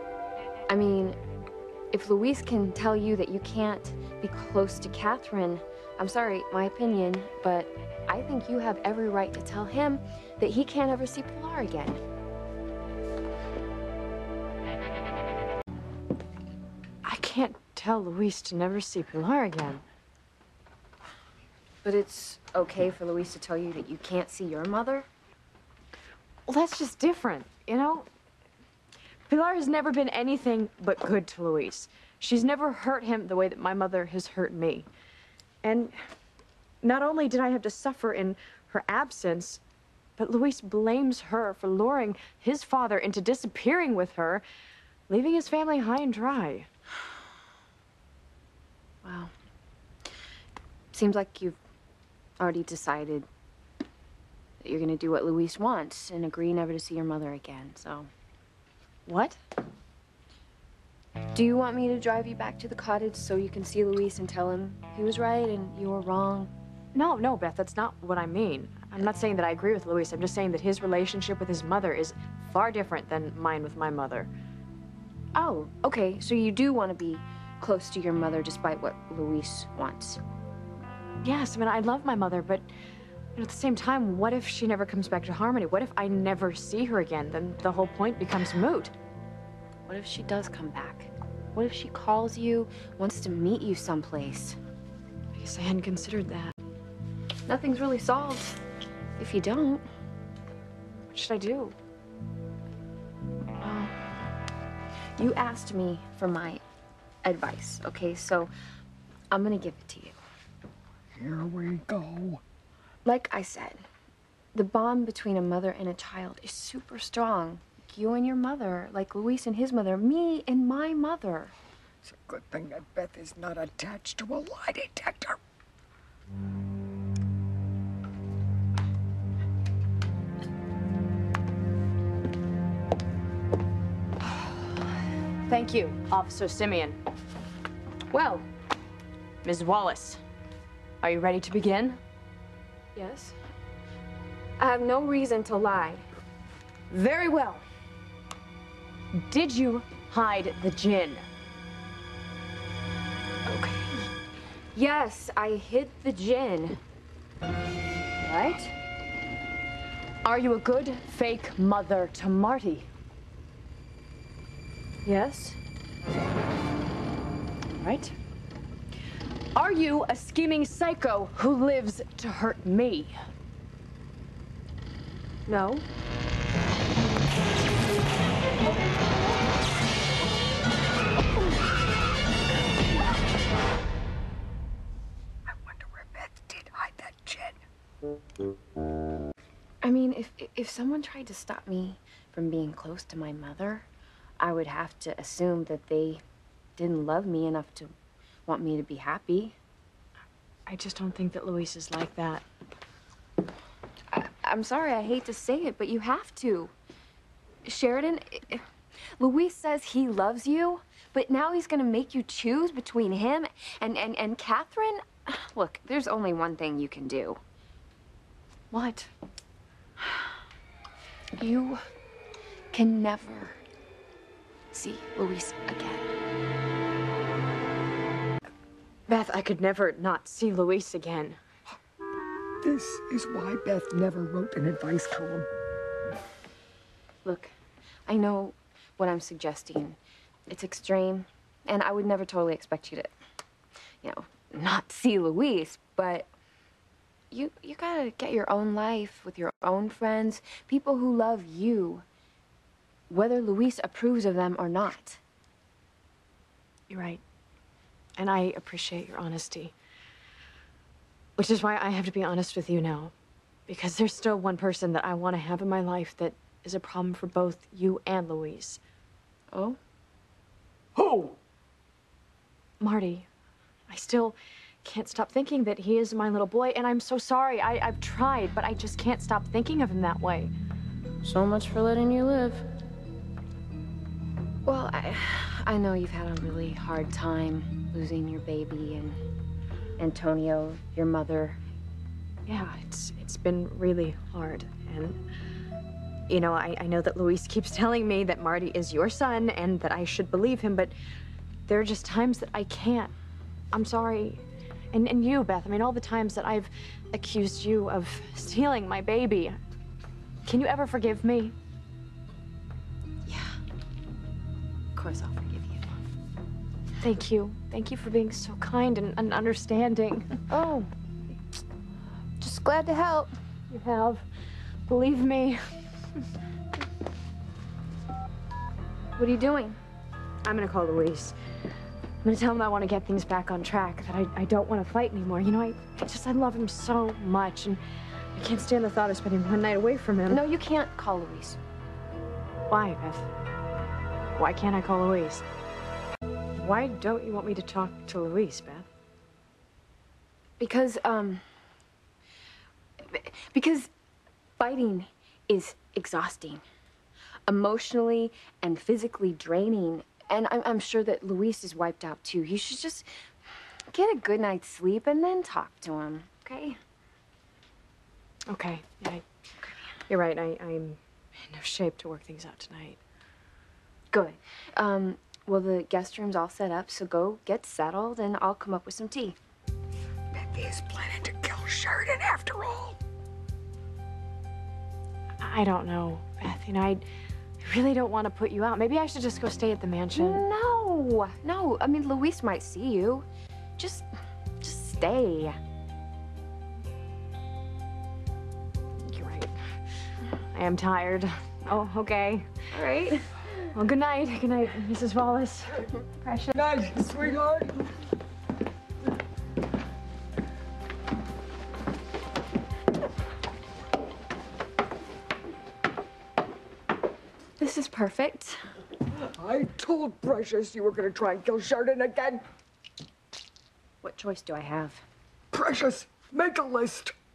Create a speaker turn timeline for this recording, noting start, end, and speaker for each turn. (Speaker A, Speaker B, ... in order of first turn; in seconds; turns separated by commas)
Speaker A: 0.7-1.2, Speaker A: 1.9-12.0, Speaker B: 17.0-19.8, Speaker A: 21.8-25.1, Speaker B: 26.5-28.1, Speaker B: 29.3-34.9, Speaker B: 35.6-35.9, Speaker B: 36.8-39.6, Speaker B: 40.2-44.4, Speaker B: 45.1-46.7, Speaker A: 49.0-49.3, Speaker A: 50.9-51.6, Speaker A: 52.4-53.3, Speaker A: 54.6-58.1, Speaker B: 59.1-59.4, Speaker A: 61.3-66.5, Speaker B: 67.0-74.3, Speaker A: 75.4-80.2, Speaker B: 81.2-82.7, Speaker B: 83.4-88.9, Speaker A: 89.9-94.6, Speaker B: 95.3-96.5, Speaker A: 97.5-98.6, Speaker A: 99.2-99.9, Speaker B: 101.1-101.8, Speaker A: 103.6-104.0, Speaker A: 105.2-106.6, Speaker A: 107.2-108.5, Speaker A: 109.3-110.2, Speaker C: 111.2-112.4, Speaker A: 113.0-113.8, Speaker A: 114.5-121.5, Speaker C: 122.0-125.4, Speaker B: 135.5-137.0, Speaker B: 138.1-138.4, Speaker B: 139.4-140.2, Speaker B: 141.0-142.0, Speaker A: 143.0-143.3, Speaker A: 144.6-146.1, Speaker B: 146.9-147.6, Speaker B: 149.2-151.3, Speaker B: 153.5-154.0, Speaker A: 154.8-156.8, Speaker A: 158.3-158.7, Speaker B: 160.2-162.9, Speaker B: 165.1-165.6, Speaker B: 167.8-168.1, Speaker B: 169.6-173.2, Speaker A: 175.5-175.8, Speaker B: 175.5-175.8, Speaker C: 185.5-187.6, Speaker A: 189.8-193.9, Speaker A: 194.4-196.2, Speaker A: 196.8-197.9, Speaker A: 198.5-199.6, Speaker B: 200.7-202.4, Speaker A: 204.1-206.7, Speaker A: 207.7-208.7, Speaker A: 209.2-217.4, Speaker B: 218.7-219.1, Speaker A: 221.4-221.8, Speaker A: 222.7-223.6, Speaker A: 224.7-226.1, Speaker B: 229.1-231.4, Speaker C: 232.6-235.5, Speaker A: 237.2-237.5, Speaker A: 238.1-240.0, Speaker A: 240.5-243.1, Speaker A: 244.0-246.3, Speaker A: 247.3-252.1, Speaker A: 253.1-255.2, Speaker B: 256.9-257.2, Speaker B: 258.2-259.7, Speaker B: 261.4-263.1, Speaker B: 263.7-268.8, Speaker A: 269.5-269.8, Speaker C: 271.0-271.4, Speaker B: 272.8-273.3, Speaker B: 273.9-280.5, Speaker A: 281.2-282.7, Speaker A: 284.6-289.2, Speaker A: 290.0-291.6, Speaker B: 292.5-295.2, Speaker B: 296.3-300.9, Speaker B: 301.7-303.1, Speaker B: 303.7-304.4, Speaker B: 304.9-309.6, Speaker B: 310.5-311.5, Speaker A: 313.3-313.6, Speaker A: 314.9-315.9, Speaker B: 317.0-320.9, Speaker A: 320.6-320.8, Speaker B: 322.4-324.2, Speaker B: 324.9-325.6, Speaker A: 329.2-329.8, Speaker B: 330.4-331.4, Speaker B: 332.2-337.8, Speaker B: 338.4-340.4, Speaker A: 340.3-341.6, Speaker B: 342.7-343.3, Speaker B: 344.4-345.4, Speaker B: 346.6-348.9, Speaker A: 350.6-351.4, Speaker A: 353.0-353.9, Speaker A: 354.6-356.6, Speaker A: 357.5-363.1, Speaker A: 363.9-366.8, Speaker B: 368.5-369.2, Speaker B: 370.1-373.0, Speaker A: 374.1-379.4, Speaker C: 380.3-383.0, Speaker B: 385.4-387.0, Speaker B: 387.6-390.5, Speaker A: 390.1-393.3, Speaker A: 393.8-394.1, Speaker A: 394.6-395.6, Speaker B: 399.0-399.6, Speaker B: 400.5-402.5, Speaker A: 402.7-403.4, Speaker B: 403.7-406.5, Speaker C: 406.5-407.9, Speaker A: 417.6-418.6, Speaker C: 419.2-422.4, Speaker A: 424.0-425.0, Speaker C: 425.5-427.1